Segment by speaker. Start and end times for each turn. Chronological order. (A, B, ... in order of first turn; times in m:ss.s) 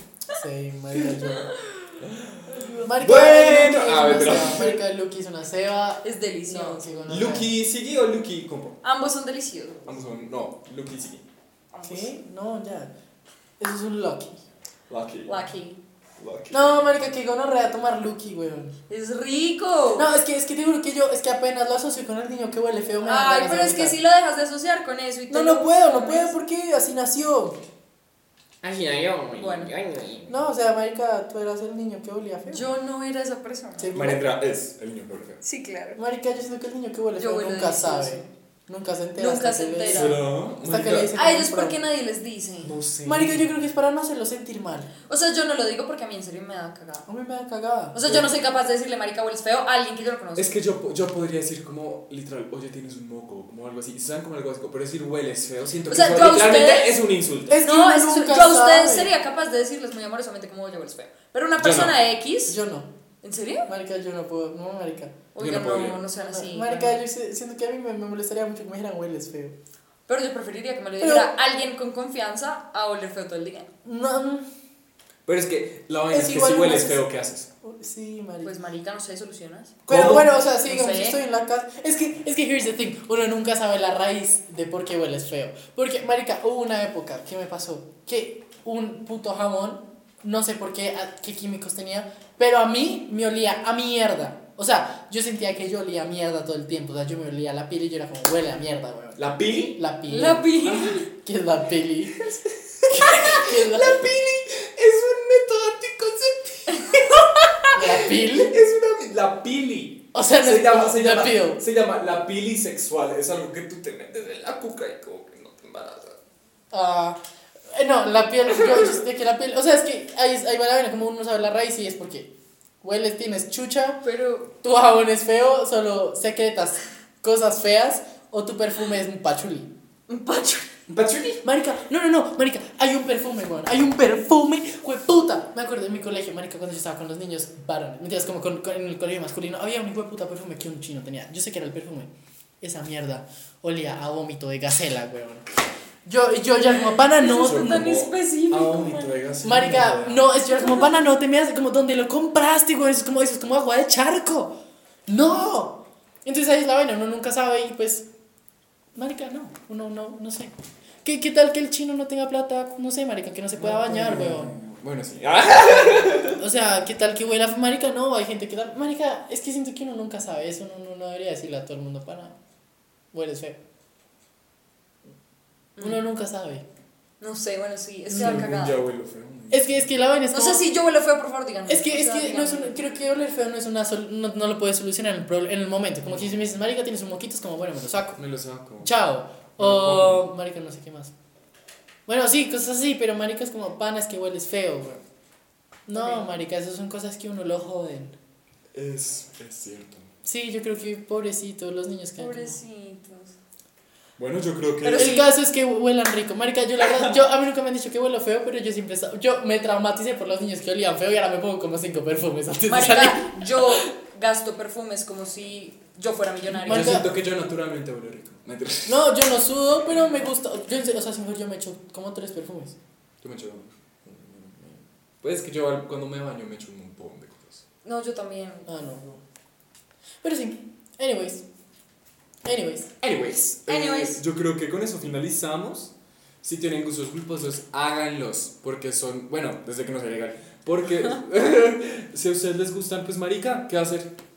0:00.3-0:01.6 A
0:02.0-0:04.8 B
0:02.8-0:07.5 A
0:06.0-0:07.3 C
0:07.1-0:08.8 B
0:08.8-0:10.0 C
0:09.9-0:11.2 B
0:11.7-0:12.1 C
0:11.8-0:12.9 A
0:13.6-0:14.4 A
0:14.9-0:15.4 B
0:15.3-0:15.8 C
0:16.2-0:16.7 B
0:16.5-0:18.7 A
0:18.9-0:20.1 C
0:20.0-0:24.0 A
0:23.0-0:26.3 C
0:25.3-0:27.6 A
0:28.6-0:30.3 B
0:29.4-0:29.7 C
0:30.3-0:32.7 A
0:32.5-0:34.1 C
0:33.8-0:34.3 A
0:34.0-0:35.4 B
0:35.4-0:36.0 C
0:36.0-0:41.8 A
0:37.2-0:38.3 C
0:39.2-0:40.3 C
0:39.9-0:41.1 B
0:41.2-0:42.7 C
0:42.6-0:43.5 B
0:43.0-0:44.9 A
0:45.1-0:47.1 C
0:47.1-0:48.0 A
0:47.9-0:50.5 C
0:48.0-0:48.3 B
0:50.4-0:57.6 B
0:55.9-0:57.0 C
0:57.5-0:59.1 A
0:57.6-1:02.6 C
1:01.6-1:02.0 B
1:02.5-1:02.9 A
1:03.2-1:03.7 C
1:03.7-1:05.2 A
1:05.3-1:07.0 C
1:05.4-1:06.0 B
1:06.3-1:09.6 A
1:10.1-1:13.7 C
1:11.0-1:11.3 A
1:13.8-1:14.5 A
1:15.3-1:17.5 B
1:16.1-1:17.0 A
1:17.6-1:18.5 A
1:18.4-1:19.8 C
1:19.9-1:20.3 B
1:19.9-1:42.3 A
1:20.4-1:21.2 C
1:39.2-1:39.8 B
1:40.1-1:41.1 C
1:40.6-1:41.0 B
1:42.2-1:47.2 B
1:42.9-1:44.0 A
1:46.7-1:47.0 C
1:47.7-1:48.6 A
1:48.4-1:56.2 B
1:50.1-1:51.6 A
1:56.7-1:57.2 A
1:57.7-2:02.3 A
2:02.8-2:04.0 A
2:04.0-2:04.5 C
2:04.6-2:09.7 A
2:10.1-2:10.7 C
2:10.9-2:11.4 B
2:11.4-2:22.1 A
2:22.6-2:25.5 A
2:26.0-2:27.8 A
2:26.7-2:29.2 C
2:27.2-2:30.3 B
2:29.4-2:34.6 A
2:30.5-2:31.0 C
2:35.1-2:38.1 A
2:39.0-2:40.5 A
2:41.0-2:44.6 A
2:43.6-2:46.4 B
2:45.7-2:52.4 A
2:53.1-2:53.6 A
2:55.8-2:56.0 C
2:55.8-2:56.6 A
2:57.2-2:58.8 C
2:58.1-2:58.5 A
2:58.1-2:59.9 B
2:59.5-3:00.6 A
3:00.3-3:02.8 C
3:01.7-3:08.2 A
3:06.0-3:06.4 B
3:08.2-3:09.0 B
3:08.8-3:11.1 A
3:09.6-3:10.3 B
3:12.1-3:15.0 A
3:15.9-3:18.2 A
3:15.9-3:16.3 C
3:18.7-3:20.1 B
3:20.2-3:22.6 A
3:22.2-3:23.3 C
3:24.2-3:25.2 B
3:24.8-3:25.3 C
3:24.9-3:33.9 A
3:26.8-3:27.2 B
3:32.7-3:37.0 C
3:36.5-3:37.1 A
3:36.7-3:39.0 B
3:38.9-3:42.8 A
3:43.2-3:44.5 B
3:45.2-3:47.6 B
3:47.8-3:48.7 C
3:48.7-3:49.2 A
3:50.2-3:51.4 A
3:52.4-3:52.9 A
3:53.0-4:04.1 B
3:53.7-3:54.2 C